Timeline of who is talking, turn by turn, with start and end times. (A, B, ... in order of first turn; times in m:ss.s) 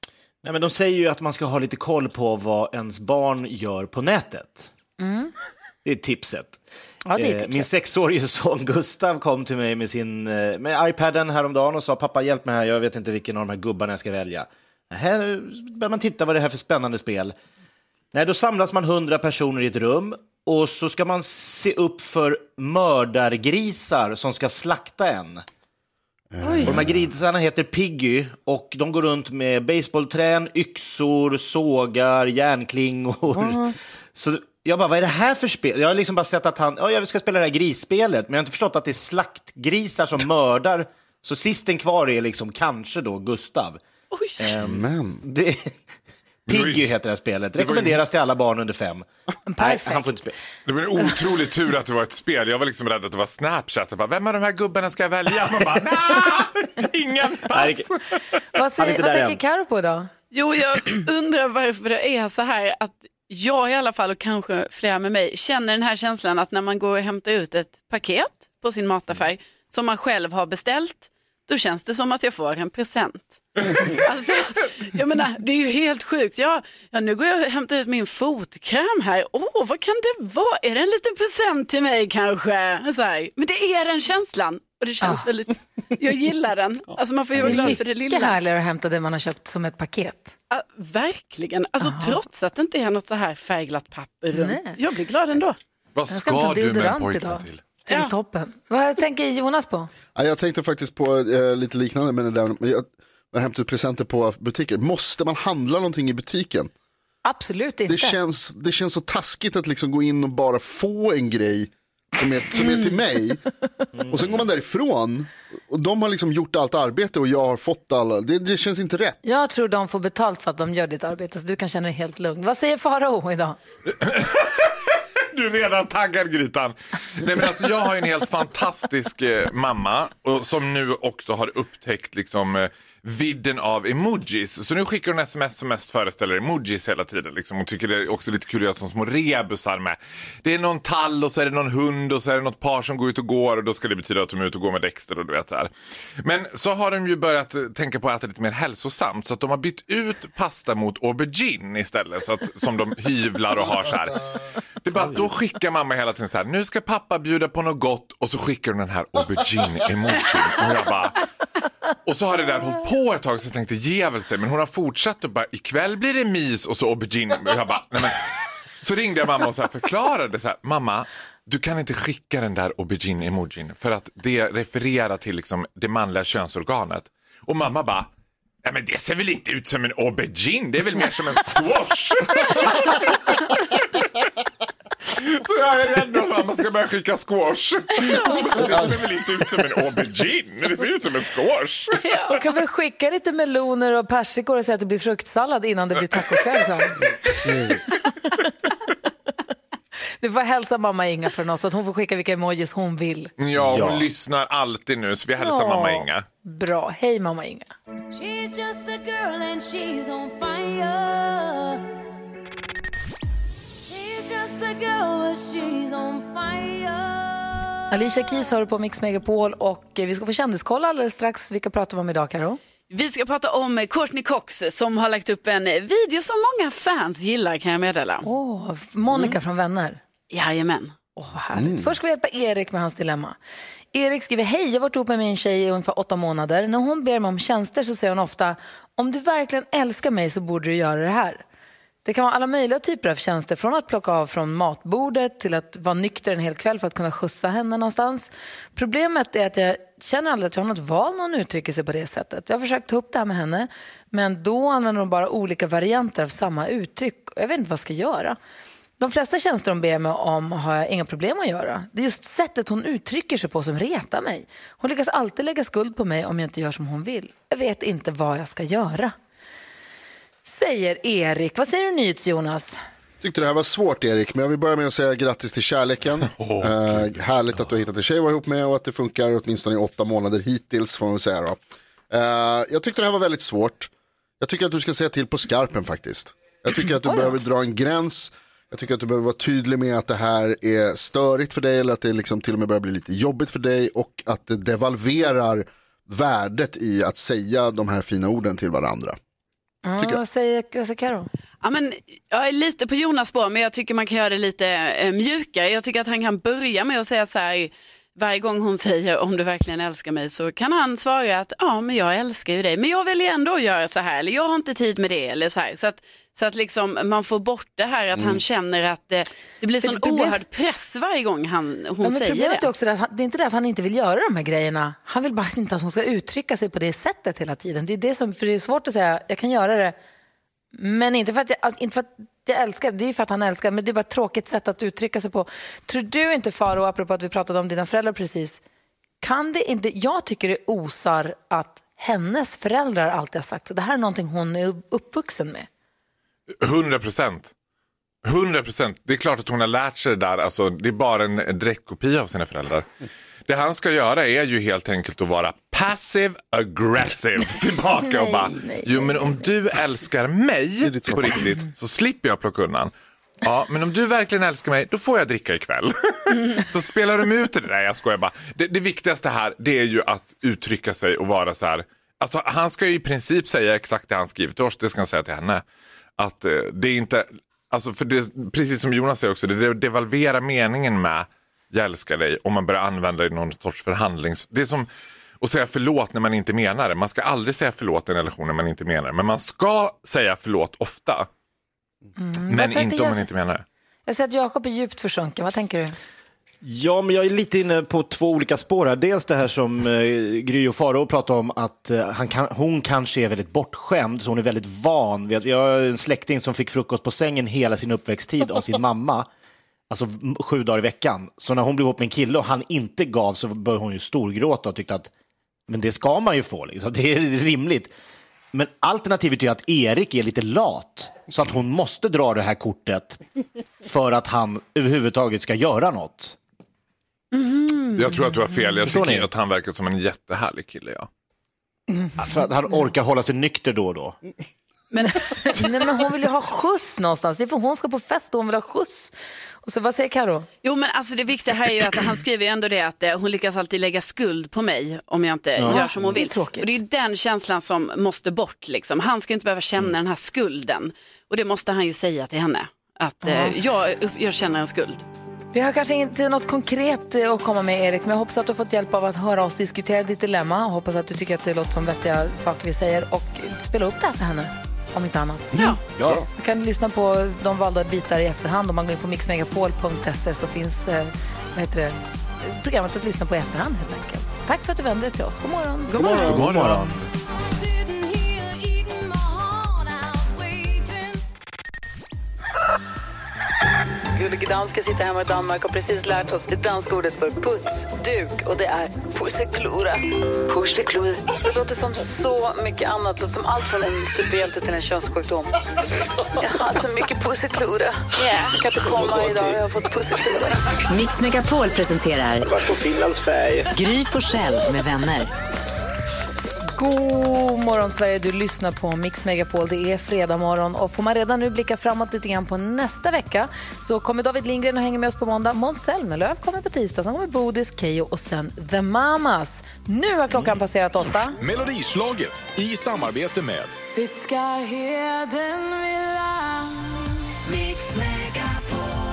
0:00.4-0:04.7 A
0:05.0-0:05.3 B
0:05.8-0:06.6 A
0:07.0-0:07.7 B
0:07.1-0:17.3 A
0:18.1-0:25.4 A
0:26.3-0:27.1 C
0:26.6-0:43.8 A
0:33.3-0:33.7 C
0:44.1-0:44.4 D
0:44.4-0:45.7 A
0:44.6-0:45.2 C
0:46.5-0:46.9 E
0:46.5-0:49.1 A
0:47.6-0:48.0 E
0:49.5-0:50.3 B
0:49.6-0:50.3 A
0:50.6-0:58.0 E
0:57.5-0:57.9 A
0:58.5-1:00.1 B
0:58.8-0:59.4 A
1:00.3-1:28.4 D
1:25.0-1:25.3 B
1:27.4-1:30.3 B
1:30.5-1:35.6 D
1:31.8-1:32.2 B
1:34.3-1:34.8 B
1:36.0-1:37.6 E
1:36.1-1:39.9 B
1:40.1-1:46.7 C
1:47.2-1:48.2 B
1:47.9-1:53.4 C
1:54.0-1:54.4 A
1:54.1-1:59.2 C
1:59.2-2:03.6 B
2:03.9-2:25.7 E
2:26.2-2:34.2 E
2:34.8-2:41.2 E
2:42.0-2:58.1 E
2:58.6-3:04.2 E
3:05.1-3:12.0 E
3:12.0-3:12.3 D
3:12.3-3:17.1 B
3:20.2-3:23.3 B
3:23.4-3:26.2 E
3:23.6-3:24.1 A
3:25.4-3:27.7 B
3:28.1-3:31.8 F
3:33.9-3:37.7 F
3:37.9-3:42.6 B
3:42.9-3:48.2 D
3:48.2-3:50.0 B
3:50.3-3:50.9 D
3:51.2-3:53.4 B
3:51.5-3:51.9 C
3:53.9-4:01.4 B
4:02.0-4:18.4 B
4:19.0-4:29.1 B
4:30.4-4:32.8 B
4:33.2-4:41.6 C
4:36.2-4:37.8 E
4:42.1-4:59.2 C
4:47.0-4:47.4 B
4:59.8-5:01.3 B
5:01.6-5:22.7 D
5:18.1-5:18.4 C
5:19.8-5:20.4 B
5:22.0-5:30.0 B
5:30.8-5:38.6 B
5:39.2-5:45.7 B
5:46.6-5:47.5 E
5:48.2-5:52.8 E
5:53.5-6:02.9 E
5:58.0-5:59.5 B
6:00.8-6:01.5 C
6:03.4-6:15.6 E
6:16.2-6:24.9 E
6:25.4-6:31.3 E
6:32.2-6:33.3 B
6:32.5-6:33.6 E
6:34.1-6:35.9 B
6:36.6-6:49.3 A
6:49.9-6:55.1 A
6:55.7-6:57.9 A
6:58.5-7:03.2 A
7:03.8-7:06.4 A
7:07.4-7:07.7 D
7:07.9-7:11.1 E
7:08.8-7:09.3 A
7:12.2-7:14.2 A
7:14.9-7:15.4 D
7:15.3-7:20.5 B
7:20.6-7:35.0 D
7:25.7-7:26.7 B
7:33.2-7:33.6 B
7:35.5-7:45.8 B
7:46.4-7:56.0 B
7:55.9-7:56.2 D
7:56.0-7:56.6 C
7:56.1-7:57.0 A
7:56.2-7:57.0 E
7:57.4-8:01.2 F
8:04.2-8:10.0 B
8:10.5-8:15.5 B
8:16.4-8:20.6 B
8:20.9-8:22.5 G
8:22.6-8:23.4 H
8:22.7-8:23.6 A
8:23.7-8:25.3 G
8:26.8-8:41.4 B
8:41.4-8:43.7 H
8:43.9-8:48.8 F